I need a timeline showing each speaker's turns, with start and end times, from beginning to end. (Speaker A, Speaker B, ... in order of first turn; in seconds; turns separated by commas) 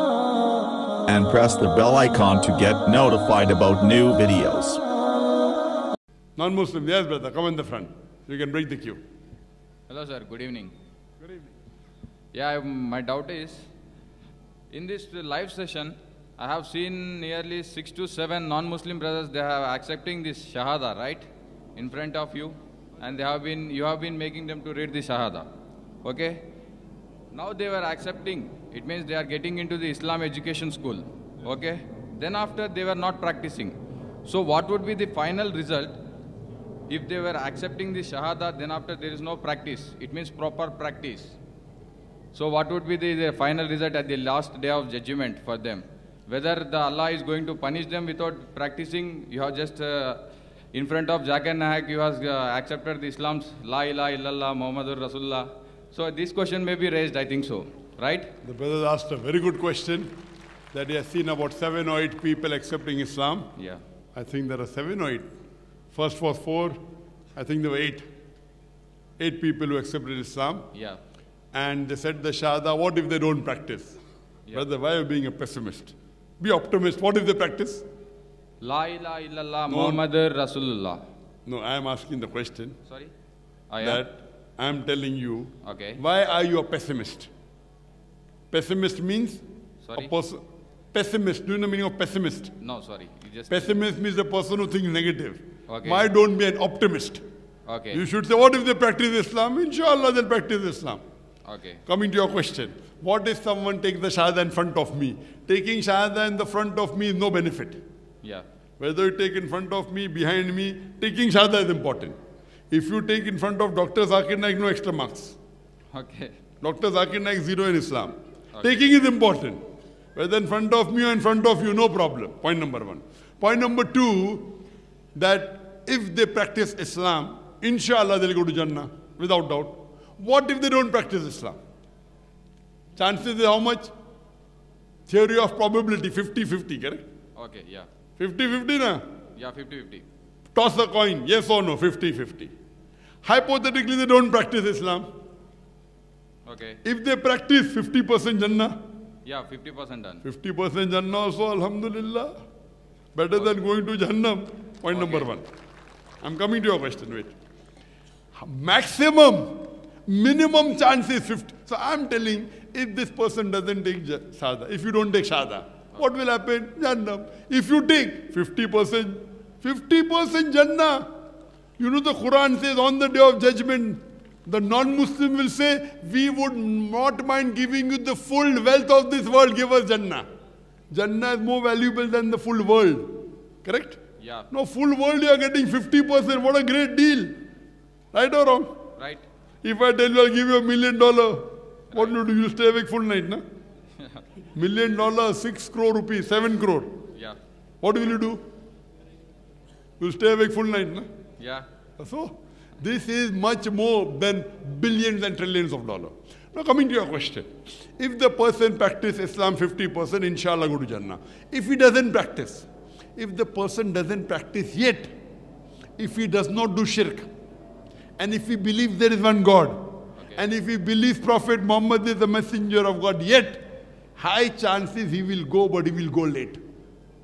Speaker A: 1.1-4.8, Speaker B: 6.4-9.0, Speaker C: 9.9-10.7, Speaker C: 12.3-13.7, Speaker C: 14.7-25.5, Speaker C: 26.0-26.4, Speaker C: 27.3-36.0, Speaker C: 36.9-41.4, Speaker C: 42.3-58.3, Speaker B: 58.4-60.1, Speaker B: 60.7-63.5, Speaker C: 63.6-63.8, Speaker B: 64.2-65.3, Speaker B: 65.9-66.8, Speaker B: 67.4-68.1, Speaker B: 69.2-70.7, Speaker C: 70.7-71.0, Speaker B: 71.5-74.0, Speaker B: 74.5-77.8, Speaker C: 78.6-81.0, Speaker B: 79.7-80.0, Speaker B: 81.5-82.8, Speaker C: 83.7-84.0, Speaker B: 83.8-87.3, Speaker C: 85.7-86.0, Speaker B: 88.5-89.4, Speaker C: 89.8-90.1, Speaker B: 90.0-90.4, Speaker B: 90.9-92.5, Speaker C: 92.6-93.8, Speaker B: 93.5-97.2, Speaker C: 95.7-96.1, Speaker C: 97.7-98.0, Speaker B: 97.9-101.0, Speaker C: 101.5-101.8, Speaker B: 101.9-107.8, Speaker B: 108.8-112.2, Speaker B: 112.7-115.4, Speaker C: 115.9-116.4, Speaker B: 116.6-119.6, Speaker C: 118.6-118.8, Speaker B: 120.2-124.6, Speaker B: 125.2-131.6, Speaker B: 133.0-133.9, Speaker B: 135.1-137.0, Speaker C: 137.4-137.9, Speaker B: 138.2-139.0, Speaker C: 139.4-140.1, Speaker B: 140.5-142.5, Speaker B: 143.2-145.1, Speaker C: 146.5-146.8, Speaker B: 146.8-148.7, Speaker C: 149.2-150.2, Speaker B: 150.2-152.3, Speaker B: 153.1-155.5, Speaker C: 154.9-155.3, Speaker B: 156.2-157.3, Speaker B: 158.3-171.1, Speaker B: 171.8-180.2, Speaker B: 180.9-183.1, Speaker B: 183.6-184.0, Speaker C: 184.2-184.5, Speaker B: 184.5-187.4, Speaker B: 188.1-188.8, Speaker C: 189.0-189.2, Speaker B: 189.6-193.4, Speaker B: 194.6-196.9, Speaker B: 197.8-198.4, Speaker B: 200.0-201.1, Speaker C: 201.4-201.7, Speaker B: 202.0-215.1, Speaker B: 216.0-217.3, Speaker B: 218.2-219.8, Speaker C: 220.2-220.4, Speaker B: 220.3-223.6, Speaker B: 224.2-226.6